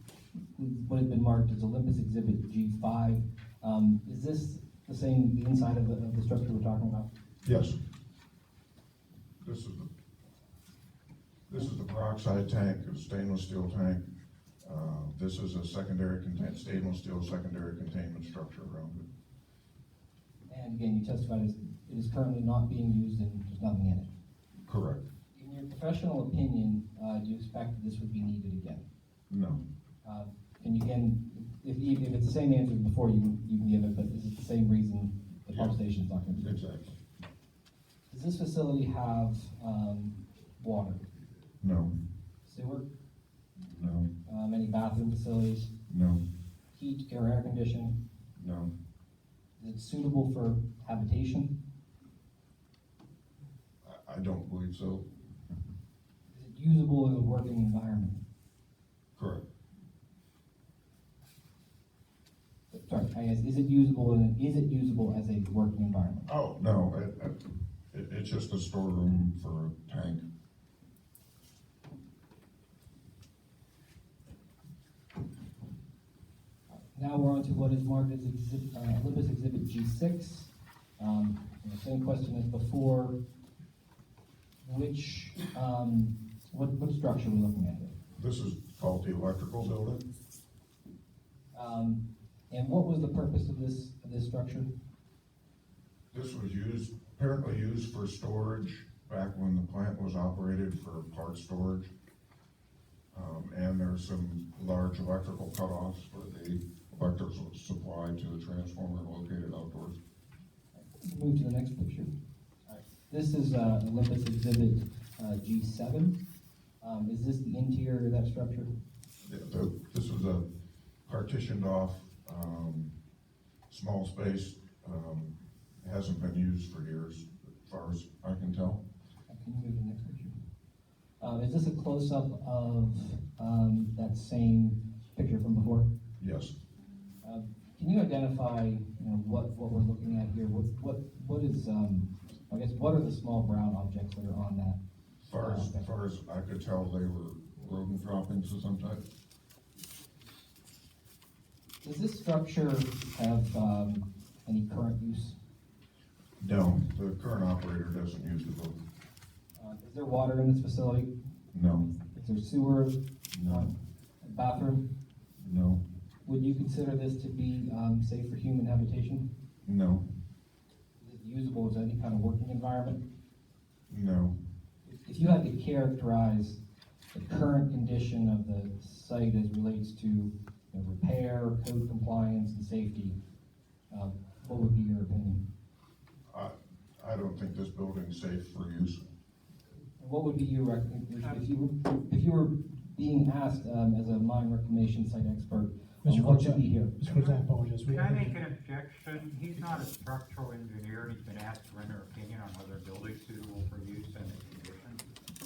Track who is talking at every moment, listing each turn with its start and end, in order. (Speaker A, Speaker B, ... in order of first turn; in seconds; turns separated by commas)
Speaker A: 0.5-7.1, Speaker B: 7.4-7.8, Speaker B: 9.4-9.9, Speaker B: 11.5-14.0, Speaker B: 14.6-19.1, Speaker A: 20.5-24.1, Speaker B: 24.6-25.0, Speaker A: 25.3-28.8, Speaker B: 29.3-29.6, Speaker A: 30.0-36.5, Speaker B: 36.4-37.0, Speaker A: 38.1-41.0, Speaker B: 41.6-41.9, Speaker A: 42.4-42.9, Speaker B: 43.6-44.1, Speaker A: 44.2-45.7, Speaker B: 45.9-46.2, Speaker A: 46.7-48.0, Speaker B: 48.4-48.7, Speaker A: 49.6-51.5, Speaker B: 53.8-55.1, Speaker A: 56.3-58.2, Speaker B: 59.1-59.4, Speaker A: 62.7-66.3, Speaker B: 66.3-70.2, Speaker A: 76.9-83.2, Speaker A: 84.6-87.9, Speaker B: 88.2-90.0, Speaker A: 91.5-94.7, Speaker B: 96.1-101.9, Speaker B: 103.1-110.0, Speaker A: 110.7-112.1, Speaker A: 112.7-116.2, Speaker A: 116.8-118.7, Speaker B: 119.2-120.4, Speaker B: 121.0-122.9, Speaker B: 123.7-128.8, Speaker A: 129.3-130.3, Speaker A: 131.2-135.9, Speaker B: 136.2-136.5, Speaker A: 137.2-144.8, Speaker B: 145.2-149.0, Speaker A: 145.4-145.9, Speaker A: 151.8-155.4, Speaker B: 156.4-158.8, Speaker A: 159.6-161.1, Speaker B: 161.5-161.9, Speaker A: 162.1-164.8, Speaker B: 163.3-163.7, Speaker B: 165.4-165.8, Speaker A: 166.2-169.2, Speaker B: 169.6-170.1, Speaker A: 171.0-173.0, Speaker B: 173.9-174.3, Speaker A: 174.8-176.6, Speaker A: 177.1-183.2, Speaker A: 183.9-185.4, Speaker B: 186.3-189.0, Speaker A: 190.0-197.0, Speaker C: 196.0-198.4, Speaker D: 197.8-205.0